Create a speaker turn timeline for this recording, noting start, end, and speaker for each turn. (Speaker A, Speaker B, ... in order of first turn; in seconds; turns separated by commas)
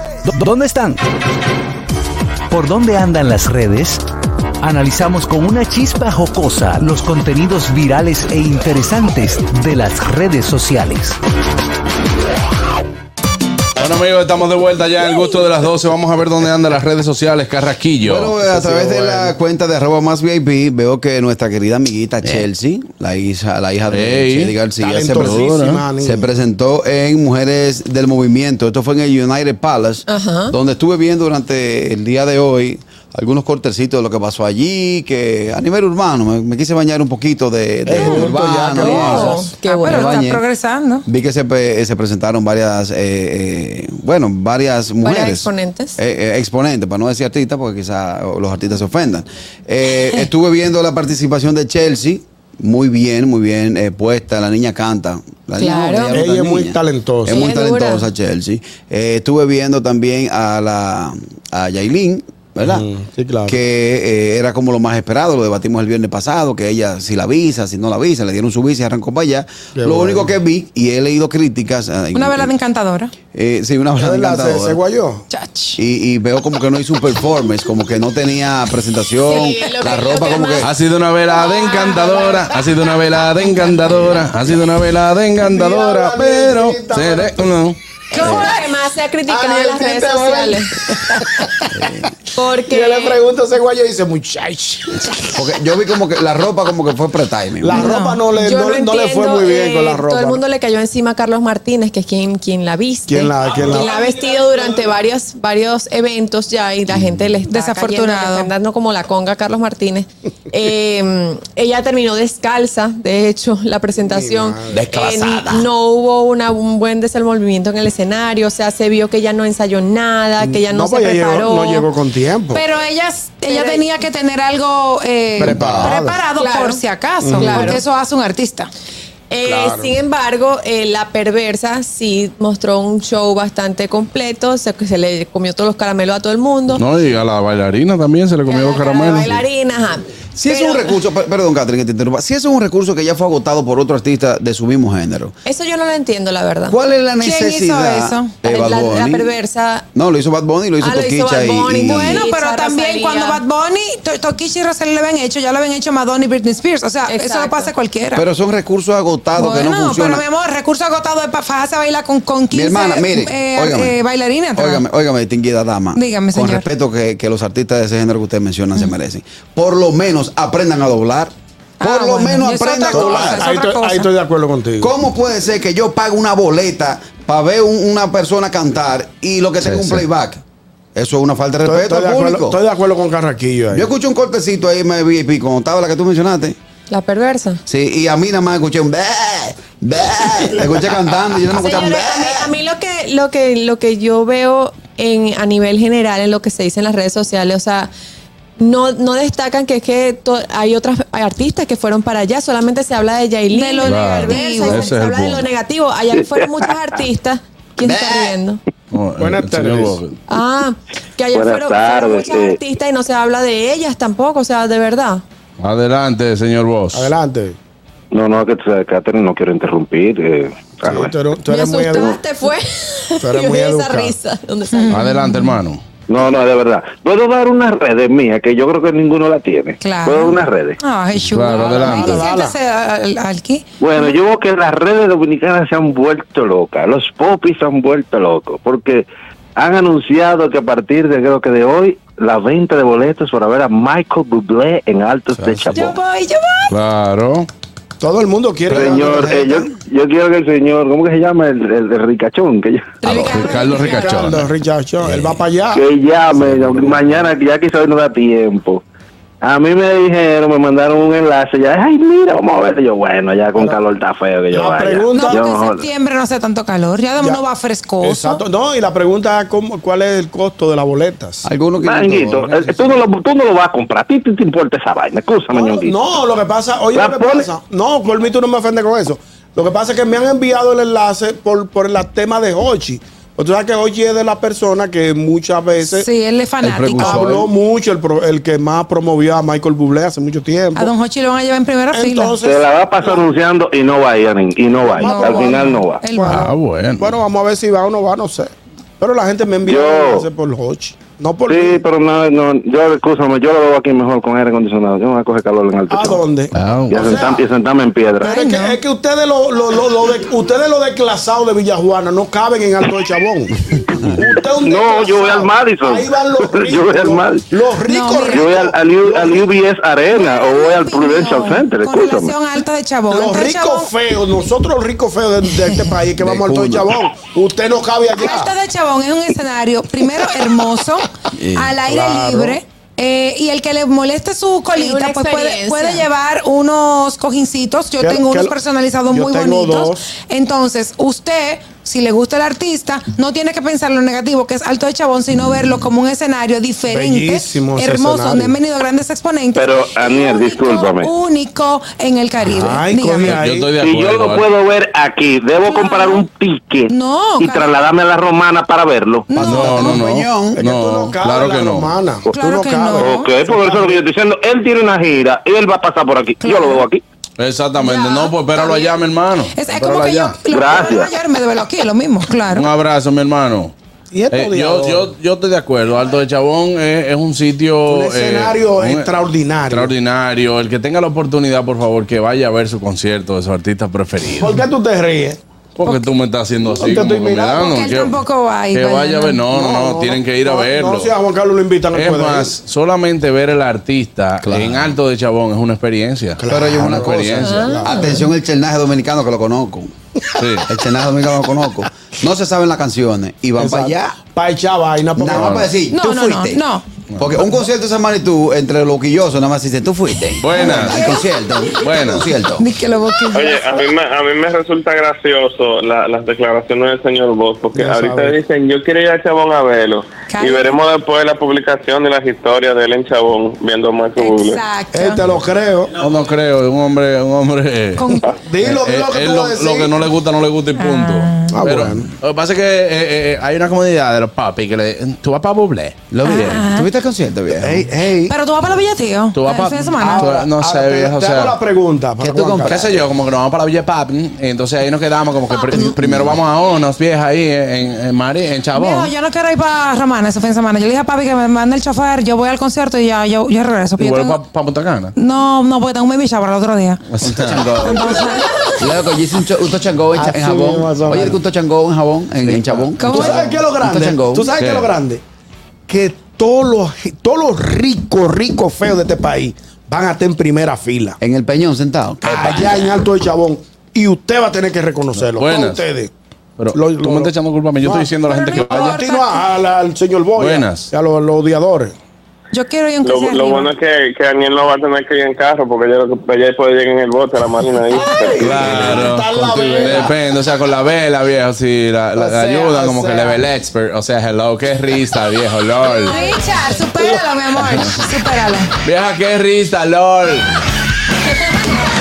Speaker A: 0.2-1.0, Speaker A: 2.5-4.0, Speaker A: 4.6-11.2, Speaker B: 13.8-19.2, Speaker C: 18.0-25.5, Speaker B: 23.9-24.6, Speaker D: 24.8-26.2, Speaker B: 25.2-25.9, Speaker C: 26.0-40.4, Speaker E: 30.1-30.5, Speaker D: 37.9-39.5, Speaker E: 38.0-40.2, Speaker F: 38.9-41.0, Speaker C: 41.0-62.8, Speaker E: 45.0-46.0, Speaker E: 55.6-56.2, Speaker D: 56.1-57.5, Speaker E: 57.3-58.1, Speaker D: 62.6-63.6, Speaker C: 63.5-72.5, Speaker D: 69.7-70.3, Speaker F: 72.1-73.1, Speaker C: 73.3-74.8, Speaker D: 74.0-75.2, Speaker F: 75.3-75.8, Speaker C: 75.8-80.7, Speaker E: 79.3-80.7, Speaker B: 80.6-87.8, Speaker E: 81.3-82.5, Speaker D: 85.4-87.5, Speaker E: 88.1-90.8, Speaker C: 88.2-88.5, Speaker D: 89.3-91.7, Speaker C: 91.7-92.1, Speaker E: 92.3-93.2, Speaker D: 92.7-95.3, Speaker C: 95.3-97.8, Speaker D: 97.6-100.4, Speaker F: 97.7-98.2, Speaker E: 97.8-121.9, Speaker D: 103.1-104.0, Speaker C: 106.9-107.3, Speaker F: 107.4-108.5, Speaker D: 114.0-114.8, Speaker A: 114.7-115.7, Speaker D: 120.4-122.6, Speaker F: 122.5-128.7, Speaker E: 123.4-123.8, Speaker C: 125.4-126.0, Speaker D: 125.4-126.2, Speaker E: 126.3-126.8, Speaker D: 127.2-127.8, Speaker E: 127.4-127.8, Speaker E: 129.3-136.8, Speaker D: 129.4-130.0, Speaker B: 136.7-139.4, Speaker E: 138.4-141.0, Speaker C: 140.3-145.3, Speaker E: 145.4-146.8, Speaker C: 146.7-149.3, Speaker F: 147.2-148.3, Speaker E: 148.4-149.8, Speaker C: 149.9-152.2, Speaker E: 150.8-153.4, Speaker F: 151.8-158.2, Speaker E: 157.1-157.7, Speaker C: 158.1-160.2, Speaker F: 159.3-164.8, Speaker C: 162.5-164.0, Speaker C: 164.5-173.5, Speaker F: 165.9-166.7, Speaker F: 171.8-174.1, Speaker D: 172.9-174.9, Speaker C: 174.8-180.4, Speaker B: 179.6-180.0, Speaker C: 180.9-182.6, Speaker D: 181.6-183.9, Speaker C: 183.7-186.6, Speaker E: 186.9-187.6, Speaker C: 187.7-192.5, Speaker E: 191.6-197.9, Speaker E: 198.6-208.6, Speaker F: 203.5-204.9, Speaker B: 203.8-205.5, Speaker C: 207.8-208.4, Speaker B: 208.9-210.2, Speaker D: 209.2-210.0, Speaker E: 210.3-215.2, Speaker G: 211.3-212.6, Speaker B: 215.6-217.1, Speaker D: 216.9-217.6, Speaker G: 218.1-221.1, Speaker D: 220.8-222.2, Speaker E: 221.5-225.2, Speaker D: 223.2-224.1, Speaker F: 224.7-225.6, Speaker B: 224.9-225.8, Speaker G: 226.1-230.8, Speaker F: 229.8-234.2, Speaker B: 231.2-232.3, Speaker D: 231.7-232.6, Speaker G: 233.8-246.0, Speaker D: 245.4-245.7, Speaker F: 245.7-246.8, Speaker B: 246.7-247.5, Speaker D: 248.0-249.5, Speaker C: 248.7-249.7, Speaker G: 248.7-253.4, Speaker F: 253.0-254.2, Speaker D: 253.1-255.8, Speaker B: 253.4-254.5, Speaker G: 255.7-258.8, Speaker G: 259.4-265.9, Speaker D: 264.5-265.4, Speaker F: 265.1-268.4, Speaker D: 267.2-267.4, Speaker D: 268.0-271.4, Speaker C: 271.4-273.0, Speaker G: 271.8-276.0, Speaker D: 275.5-286.1, Speaker G: 276.9-277.5, Speaker F: 285.8-287.4, Speaker C: 286.6-287.5, Speaker D: 287.0-290.9, Speaker F: 290.8-292.4, Speaker D: 291.9-293.2, Speaker G: 292.4-296.0, Speaker D: 294.9-301.8, Speaker F: 295.0-296.5, Speaker B: 296.2-297.1, Speaker G: 299.6-300.3, Speaker G: 301.5-306.3, Speaker D: 305.9-307.4, Speaker B: 306.5-307.2, Speaker G: 306.9-308.4, Speaker F: 308.2-308.8, Speaker D: 308.3-319.5, Speaker G: 313.9-317.4, Speaker F: 317.8-318.5, Speaker G: 318.2-322.4, Speaker F: 320.1-323.9, Speaker D: 323.1-328.5, Speaker F: 325.6-325.9, Speaker C: 326.2-326.9, Speaker F: 328.1-353.4, Speaker C: 331.3-331.7, Speaker D: 331.8-332.6, Speaker E: 334.7-336.1, Speaker D: 338.0-338.6, Speaker D: 339.1-340.0, Speaker D: 346.9-348.6, Speaker G: 349.5-351.1, Speaker D: 352.4-353.7, Speaker B: 353.2-354.5, Speaker G: 353.8-359.4, Speaker F: 355.6-356.2, Speaker F: 356.9-357.7, Speaker F: 359.3-360.0, Speaker C: 359.4-360.6, Speaker B: 359.4-361.9, Speaker D: 359.6-359.9, Speaker D: 360.5-364.0, Speaker F: 362.3-363.4, Speaker G: 363.0-367.0, Speaker F: 366.4-366.9, Speaker B: 367.4-370.4, Speaker F: 367.7-369.0, Speaker F: 369.5-372.7, Speaker G: 370.5-371.2, Speaker B: 372.5-373.7, Speaker D: 374.1-375.1, Speaker B: 374.3-384.6, Speaker D: 377.9-379.9, Speaker D: 384.4-385.4, Speaker B: 385.8-388.2, Speaker D: 386.7-387.8, Speaker F: 387.7-389.4, Speaker B: 388.7-391.1, Speaker D: 389.4-392.6, Speaker B: 391.9-397.6, Speaker C: 394.4-394.9, Speaker D: 396.4-398.2, Speaker C: 396.5-397.1, Speaker E: 397.4-398.1, Speaker C: 397.7-399.9, Speaker B: 400.4-400.7, Speaker C: 400.6-404.1, Speaker D: 403.6-405.7, Speaker C: 405.1-406.6, Speaker B: 405.2-405.8, Speaker F: 405.9-406.9, Speaker B: 407.1-407.4, Speaker C: 407.2-412.6, Speaker B: 410.4-411.1, Speaker F: 410.5-411.2, Speaker B: 411.8-412.3, Speaker F: 412.6-413.7, Speaker H: 413.3-424.6, Speaker D: 417.7-418.4, Speaker F: 420.2-420.7, Speaker F: 424.1-425.2, Speaker D: 424.9-425.9, Speaker B: 426.0-436.6, Speaker F: 427.9-428.3, Speaker D: 428.3-430.0, Speaker F: 430.8-431.6, Speaker D: 431.5-432.1, Speaker C: 436.1-437.9, Speaker F: 436.2-436.9, Speaker D: 437.5-438.4, Speaker F: 438.3-440.3, Speaker B: 439.3-441.6, Speaker D: 439.9-442.9, Speaker C: 442.2-442.9, Speaker B: 442.6-449.1, Speaker F: 445.5-445.9, Speaker C: 445.7-446.4, Speaker F: 448.7-454.4, Speaker B: 454.0-455.1, Speaker F: 455.1-457.0, Speaker B: 457.1-457.7, Speaker C: 457.2-458.2, Speaker F: 457.8-458.5, Speaker C: 458.8-464.5, Speaker D: 460.1-461.4, Speaker B: 462.4-463.4, Speaker F: 463.0-463.6, Speaker D: 463.0-465.2, Speaker B: 464.6-464.9, Speaker D: 465.9-471.2, Speaker C: 471.2-472.9, Speaker D: 472.2-476.1, Speaker B: 475.1-475.8, Speaker B: 476.6-479.0, Speaker D: 476.7-481.9, Speaker F: 478.2-479.5, Speaker B: 480.4-480.9, Speaker F: 482.5-483.7, Speaker H: 483.0-488.6, Speaker D: 487.9-490.2, Speaker B: 488.4-496.2, Speaker D: 492.1-493.4, Speaker F: 496.0-498.7, Speaker D: 496.9-497.6, Speaker B: 497.6-498.0, Speaker B: 498.8-500.5